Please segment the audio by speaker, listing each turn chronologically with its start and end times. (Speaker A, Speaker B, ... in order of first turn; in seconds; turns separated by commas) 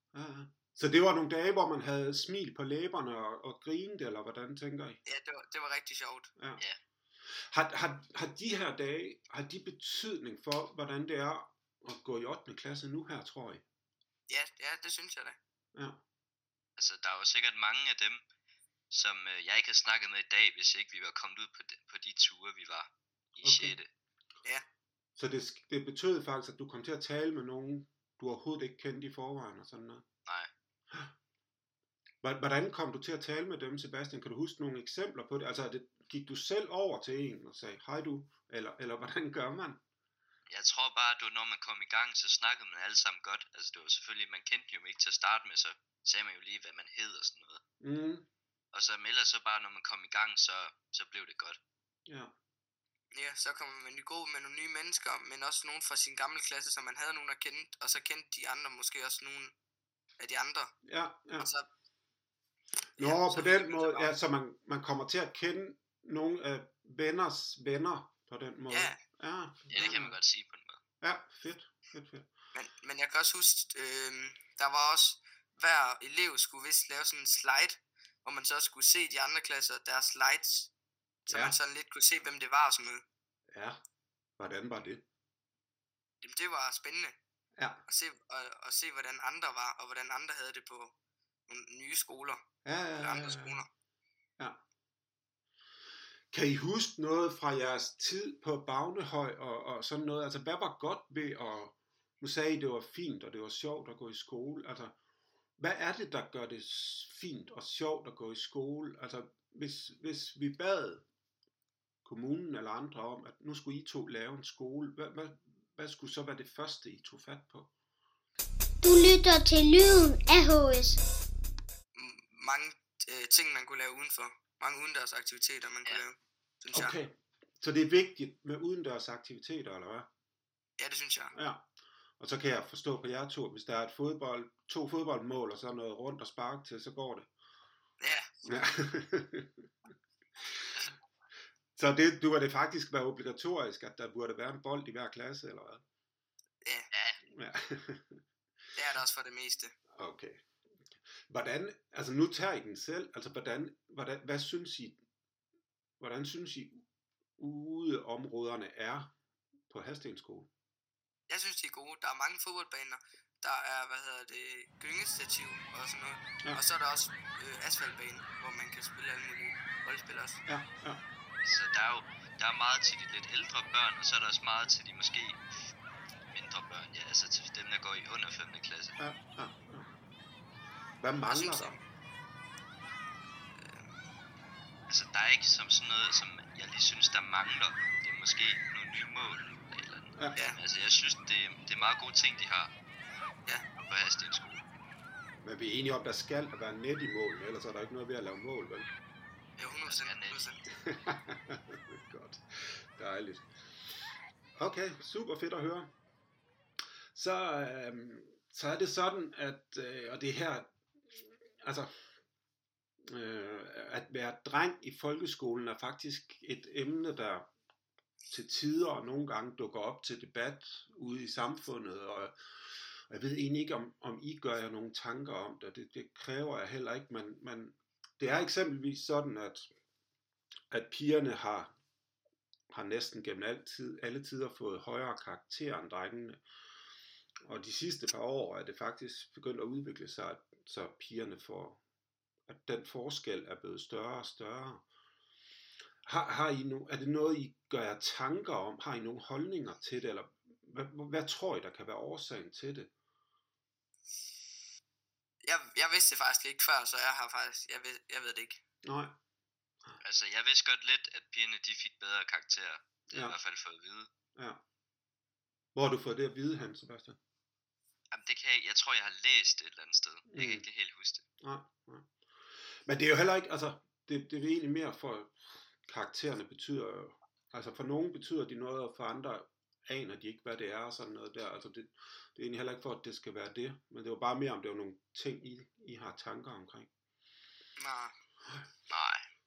Speaker A: 0.1-5.0, Speaker B: 5.0-6.3, Speaker A: 6.4-6.7, Speaker A: 7.5-13.6, Speaker B: 14.3-15.4, Speaker A: 15.8-16.0, Speaker C: 16.8-18.2, Speaker C: 18.9-23.9, Speaker A: 23.4-23.8, Speaker A: 25.2-30.1, Speaker A: 32.2-39.8, Speaker C: 40.5-47.6, Speaker A: 47.8-48.3, Speaker C: 48.7-51.6, Speaker A: 52.1-52.3, Speaker B: 53.1-59.5, Speaker B: 60.2-60.7, Speaker A: 60.9-61.5, Speaker B: 61.4-61.7, Speaker A: 63.0-70.1, Speaker B: 63.0-64.1, Speaker B: 68.7-69.0, Speaker C: 69.7-70.8, Speaker A: 71.0-72.3, Speaker B: 72.5-80.7, Speaker B: 81.3-83.0, Speaker A: 81.3-81.6, Speaker A: 83.5-83.8, Speaker A: 84.4-85.0, Speaker B: 86.2-87.2, Speaker A: 87.6-87.8, Speaker B: 87.9-90.9, Speaker B: 91.5-92.4, Speaker A: 92.7-93.7, Speaker B: 93.0-93.7, Speaker A: 96.3-105.0, Speaker A: 105.6-111.1, Speaker A: 112.0-117.7, Speaker D: 118.8-121.0, Speaker B: 121.9-127.0, Speaker A: 126.7-130.1, Speaker B: 130.8-131.3, Speaker A: 131.3-137.3, Speaker B: 138.0-138.3, Speaker A: 138.4-139.7, Speaker A: 141.8-145.8, Speaker B: 146.6-146.9, Speaker C: 146.9-147.2, Speaker A: 147.3-148.2, Speaker B: 148.8-149.8, Speaker A: 150.0-150.4, Speaker A: 151.3-155.0, Speaker A: 156.0-156.8, Speaker A: 157.4-159.1, Speaker A: 159.7-160.5, Speaker B: 161.3-170.4, Speaker A: 170.5-171.1, Speaker C: 171.4-175.7, Speaker C: 176.3-179.0, Speaker A: 179.0-179.9, Speaker A: 181.0-181.8, Speaker B: 181.3-181.8, Speaker B: 183.6-183.9, Speaker C: 184.9-192.7, Speaker C: 193.8-194.6, Speaker A: 195.4-198.9, Speaker B: 199.6-200.6, Speaker C: 199.8-200.5, Speaker A: 200.8-203.9, Speaker A: 204.6-205.9, Speaker A: 207.1-211.9, Speaker A: 213.1-217.5, Speaker A: 218.3-222.4, Speaker A: 223.1-229.7, Speaker A: 230.7-231.8, Speaker A: 232.7-236.4, Speaker A: 237.4-241.8, Speaker A: 242.5-244.8, Speaker A: 246.1-252.9, Speaker B: 255.4-258.6, Speaker A: 258.8-259.2, Speaker C: 260.0-264.1, Speaker A: 264.4-264.6, Speaker A: 265.8-267.2, Speaker C: 268.1-271.2, Speaker A: 270.3-270.6, Speaker A: 271.4-272.1, Speaker A: 272.9-286.9, Speaker B: 287.8-288.1, Speaker C: 288.9-289.2